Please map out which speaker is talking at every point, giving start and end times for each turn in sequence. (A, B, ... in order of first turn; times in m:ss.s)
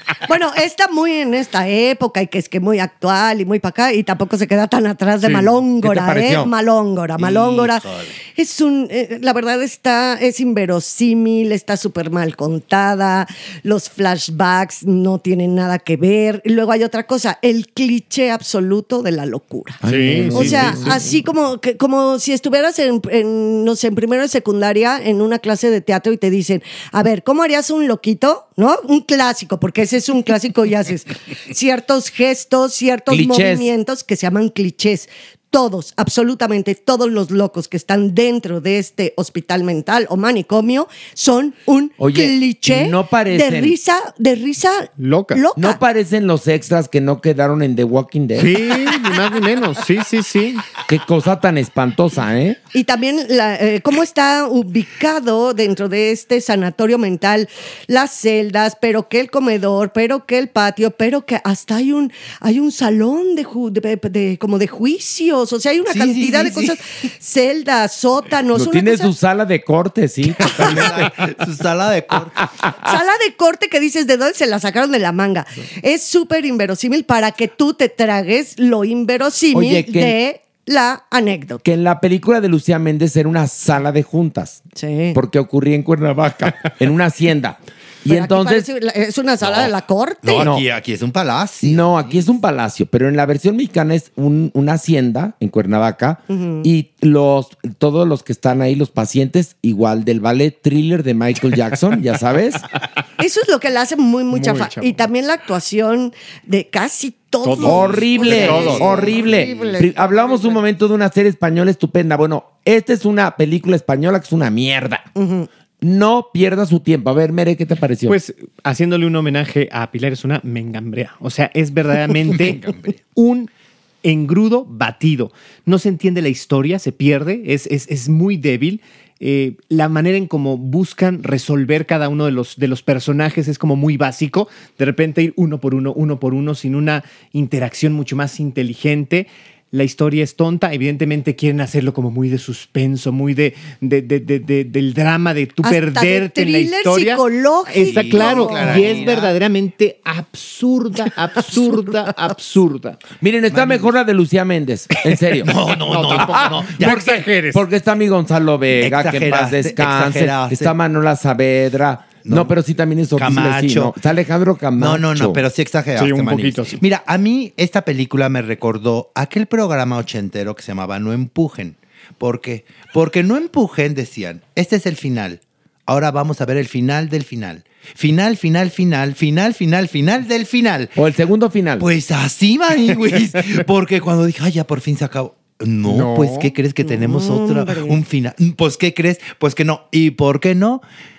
0:00.2-0:07.8 A
0:05.2-0:06.5 B
0:07.2-0:08.1 C
0:08.4-0:45.8 A
0:19.8-0:21.0 B
0:19.8-0:21.0 D
0:33.1-0:33.7 B
0:42.0-0:43.8 B
0:45.0-0:45.4 D
0:45.6-0:48.9 B
0:48.4-0:50.7 D
0:50.9-0:52.6 B
0:52.7-1:09.1 A
1:05.9-1:06.8 C
1:08.5-1:11.1 B
1:10.4-1:12.4 C
1:12.8-1:21.6 A
1:19.5-1:20.2 B
1:21.6-1:28.7 B
1:24.8-1:25.2 A
1:28.1-1:30.5 A
1:29.4-1:29.7 C
1:30.2-1:32.3 C
1:30.4-1:30.6 B
1:31.6-1:42.7 B
1:36.3-1:36.7 A
1:43.2-1:49.8 A
1:44.3-1:45.1 D
1:47.4-1:49.5 D
1:47.6-1:55.1 B
1:55.2-1:55.5 A
1:55.8-1:58.2 B
1:58.1-2:03.5 D
2:02.2-2:03.0 C
2:04.0-2:33.0 D
2:25.6-2:29.1 A
2:27.8-2:29.3 C
2:33.2-2:35.5 B
2:33.5-2:33.9 C
2:35.4-2:37.2 C
2:35.9-2:37.6 D
2:36.2-2:45.4 B
2:38.8-2:40.7 C
2:42.2-2:42.5 C
2:43.2-2:44.0 C
2:44.8-3:01.0 C
2:46.0-2:46.8 D
3:01.0-3:01.9 B
3:01.8-3:10.8 C
3:05.8-3:06.6 D
3:06.8-3:08.0 A